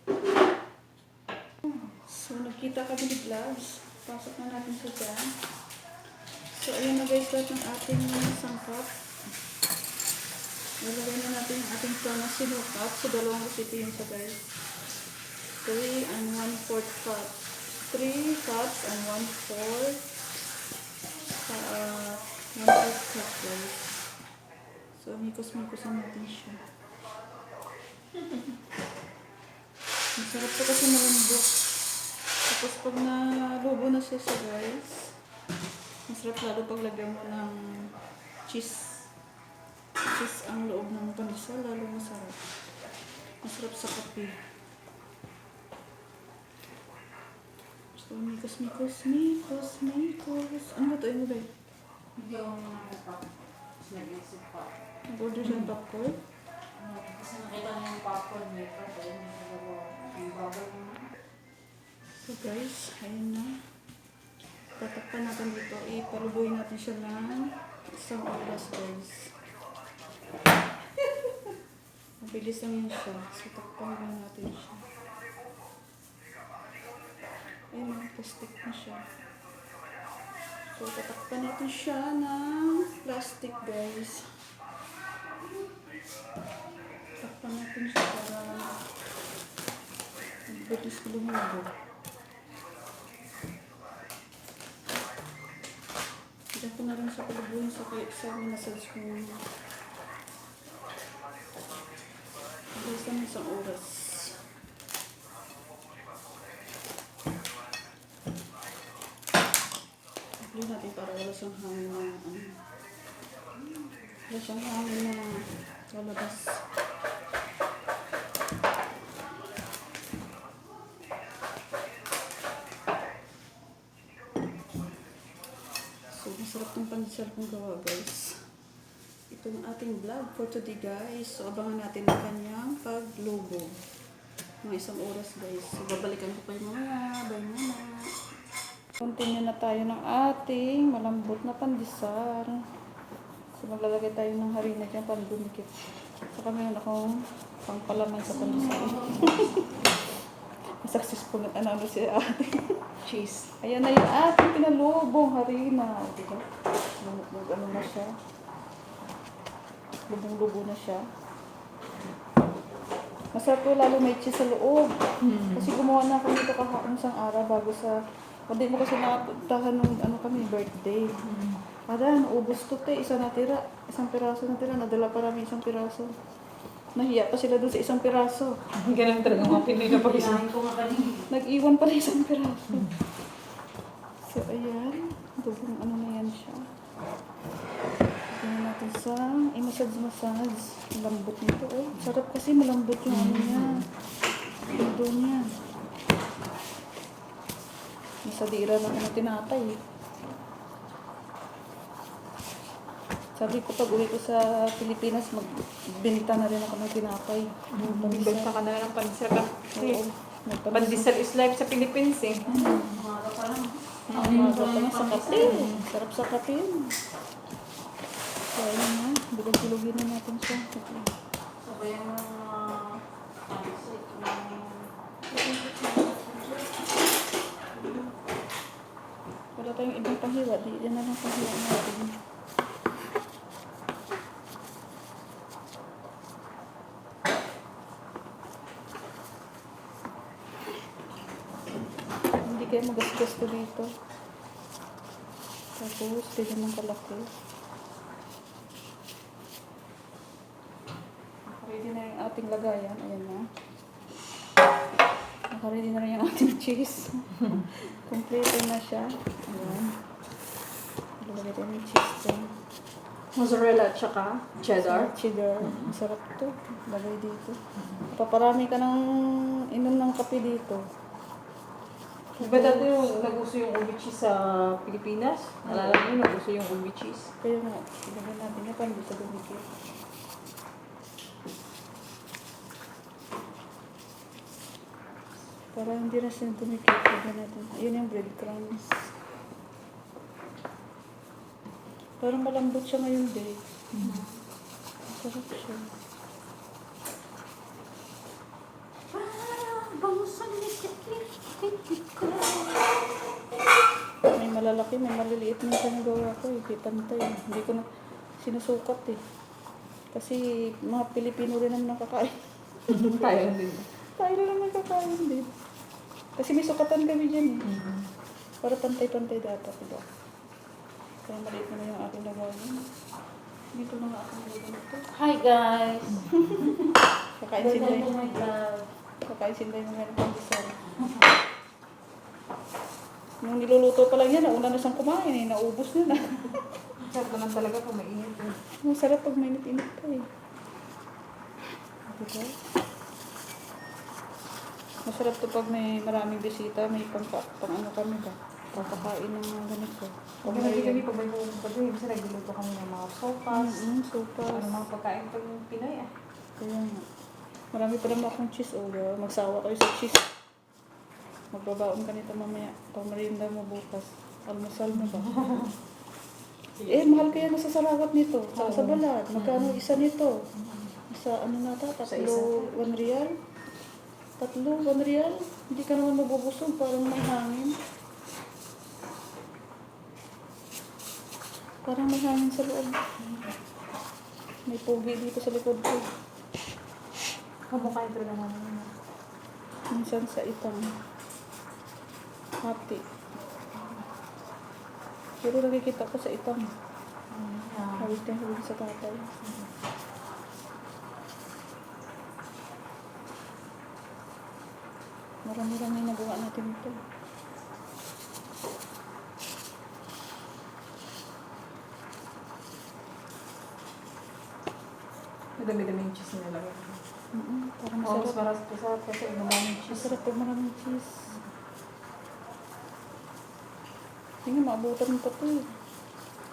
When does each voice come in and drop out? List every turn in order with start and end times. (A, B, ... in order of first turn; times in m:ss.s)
0:01.9-0:05.4 A
0:06.5-0:09.0 A
0:10.8-0:14.4 A
0:15.6-0:20.0 A
0:21.2-0:24.0 A
0:24.9-0:26.6 A
0:30.2-0:31.7 A
0:32.5-0:35.1 A
0:36.1-0:37.9 A
0:38.5-0:39.1 A
0:40.0-0:42.4 A
0:43.4-0:44.4 A
0:47.9-0:51.5 A
0:52.2-0:53.2 B
0:53.8-0:54.7 B
0:55.1-0:56.2 A
0:56.8-1:01.1 B
1:02.2-1:03.6 A
1:04.8-1:09.3 A
1:12.2-1:14.8 A
1:17.7-1:19.1 A
1:20.7-1:24.3 A
1:27.2-1:28.8 A
1:30.5-1:31.7 A
1:36.6-1:39.4 A
1:42.7-1:44.4 A
1:50.4-1:52.6 A
1:54.3-1:56.6 A
2:06.1-2:08.4 A
2:09.3-2:13.7 A
2:14.6-2:17.9 A
2:19.0-2:22.6 A
2:23.6-2:25.7 A
2:26.3-2:27.0 A
2:27.6-2:29.8 A
2:28.3-2:29.7 B
2:30.8-2:32.7 A
2:33.1-2:33.4 C
2:33.6-2:36.4 A
2:37.0-2:38.1 A
2:40.1-2:41.0 A
2:43.3-2:44.9 A
2:45.2-2:45.7 C
2:45.5-2:48.0 A
2:48.5-2:51.1 A
2:51.2-2:51.6 C
2:51.9-2:56.1 A
2:56.9-2:58.6 A
2:58.8-3:00.5 C
2:59.3-3:00.0 A
2:59.9-3:01.3 B
3:01.2-3:03.0 A
3:04.2-3:06.7 A
3:08.3-3:13.9 A
3:13.2-3:13.7 C
3:14.7-3:15.5 A
3:18.2-3:19.8 A
3:23.4-3:28.6 A
3:27.7-3:30.0 C
3:29.8-3:31.1 A
3:30.7-3:32.6 C
3:32.4-3:33.0 A
3:32.5-3:35.7 B
3:34.1-3:37.0 A
3:34.1-3:34.5 C
3:35.4-3:35.8 C
3:38.5-3:41.1 A
3:41.6-3:46.7 B
3:49.6-3:52.2 A
4:02.4-4:03.9 A
4:05.8-4:07.3 A
4:11.4-4:13.4 A
4:15.5-4:19.9 A
4:21.2-4:22.5 A
4:23.4-4:25.1 C
4:24.8-4:29.0 A
4:29.7-4:30.8 A
4:32.4-4:32.9 A
4:32.4-4:37.3 C
4:35.6-4:36.0 A
4:37.4-4:39.7 A
4:45.7-4:48.9 A
4:52.2-4:53.6 A
4:53.9-4:54.2 C
4:55.1-4:55.9 A
4:59.9-5:00.7 B
5:04.3-5:07.9 A
5:08.4-5:09.2 A
5:10.1-5:13.2 A
5:12.9-5:13.9 C
5:14.2-5:15.5 A
5:16.4-5:17.7 A
5:17.6-5:18.0 C
5:18.6-5:20.0 A
5:21.2-5:22.8 A
5:23.7-5:25.0 A
5:25.1-5:26.3 B
5:26.4-5:26.8 A
5:27.4-5:28.2 A
5:27.6-5:28.8 B
5:29.2-5:30.8 A
5:33.4-5:36.8 A
5:37.0-5:38.6 C
5:38.8-5:40.3 A
5:42.1-5:42.5 A
5:45.0-5:51.1 A
5:48.8-5:49.0 C
5:50.4-5:53.8 C
5:53.5-5:54.8 A
5:54.5-5:56.1 C
5:56.6-5:57.1 A
5:57.7-6:00.3 A
6:01.5-6:05.5 A
6:05.2-6:05.7 C
6:06.8-6:07.1 C
6:06.9-6:10.4 A
6:08.6-6:09.0 C
6:11.0-6:13.3 A
6:12.1-6:12.7 C
6:14.4-6:17.8 A
6:21.8-6:23.0 A
6:24.7-6:26.0 A
6:27.7-6:28.9 C
6:29.9-6:30.9 A
6:32.6-6:33.0 A
6:35.4-6:36.7 A
6:37.3-6:38.2 C
6:38.0-6:39.2 A
6:45.4-6:47.0 A
6:55.6-6:57.0 C
6:57.3-6:58.4 A
6:58.0-7:00.2 C
6:59.9-7:01.3 A
7:04.4-7:05.7 A